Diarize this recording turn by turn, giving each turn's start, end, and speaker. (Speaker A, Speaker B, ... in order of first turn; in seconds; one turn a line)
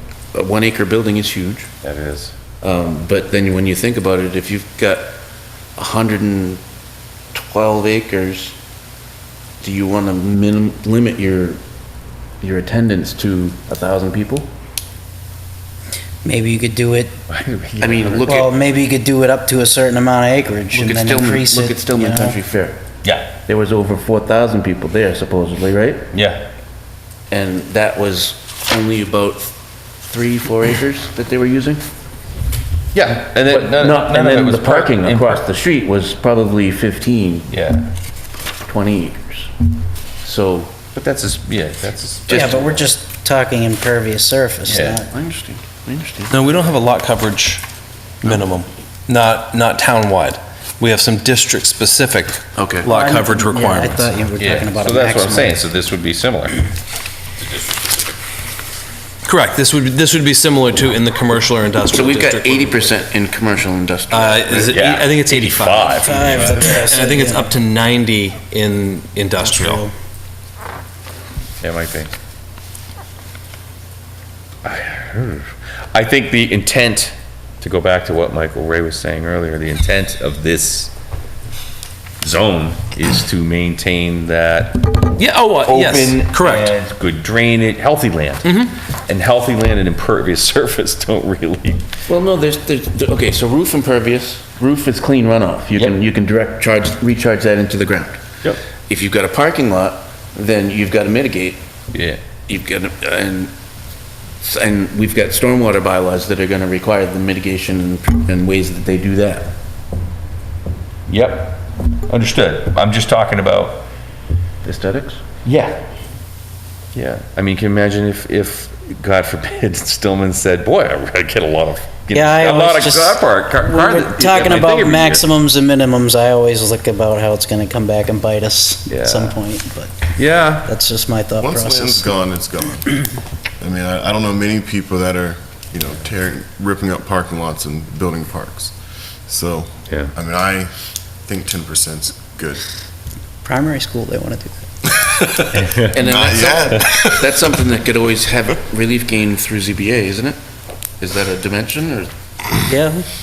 Speaker A: 0.3-1.7
Speaker B: 1.8-2.5
Speaker A: 2.6-5.2
Speaker A: 5.8-6.6
Speaker A: 7.3-8.5
Speaker A: 9.6-11.6
Speaker A: 12.4-14.5
Speaker C: 16.2-17.2
Speaker B: 17.3-18.4
Speaker A: 17.8-18.5
Speaker C: 18.2-22.4
Speaker A: 20.7-22.8
Speaker B: 23.0-23.4
Speaker A: 23.4-26.1
Speaker B: 26.1-26.5
Speaker A: 27.3-29.6
Speaker A: 30.1-31.8
Speaker B: 32.9-35.4
Speaker A: 33.5-37.5
Speaker B: 37.5-37.9
Speaker A: 38.6-39.5
Speaker A: 40.2-40.8
Speaker B: 40.9-42.8
Speaker A: 42.3-42.6
Speaker C: 42.3-45.0
Speaker B: 44.7-45.0
Speaker A: 44.7-46.3
Speaker D: 46.3-47.6
Speaker D: 48.2-54.1
Speaker A: 52.6-52.9
Speaker C: 52.9-55.6
Speaker B: 54.4-56.7
Speaker D: 59.2-62.9
Speaker A: 61.9-64.8
Speaker D: 64.1-69.8
Speaker B: 64.7-66.2
Speaker C: 65.9-67.5
Speaker C: 69.4-69.9
Speaker B: 71.6-72.1
Speaker B: 74.6-80.9
Speaker B: 82.2-91.8
Speaker D: 85.2-86.7
Speaker D: 88.4-88.7
Speaker A: 92.1-98.2
Speaker A: 98.9-101.6
Speaker B: 101.9-102.3
Speaker A: 102.3-103.5
Speaker A: 104.4-109.5
Speaker B: 111.1-113.9
Speaker A: 114.6-115.2
Speaker B: 115.4-115.8
Speaker B: 116.9-125.3
Speaker C: 122.1-130.0
Speaker B: 128.9-129.3
Speaker B: 130.1-130.7
Speaker C: 130.6-132.1
Speaker E: 131.4-133.1
Speaker E: 133.6-138.7
Speaker E: 139.2-142.6
Speaker C: 143.4-144.7
Speaker E: 145.3-147.1
Speaker B: 145.5-146.0
Speaker A: 145.9-150.4
Speaker B: 146.7-147.0
Speaker A: 151.0-152.1
Speaker C: 152.7-153.1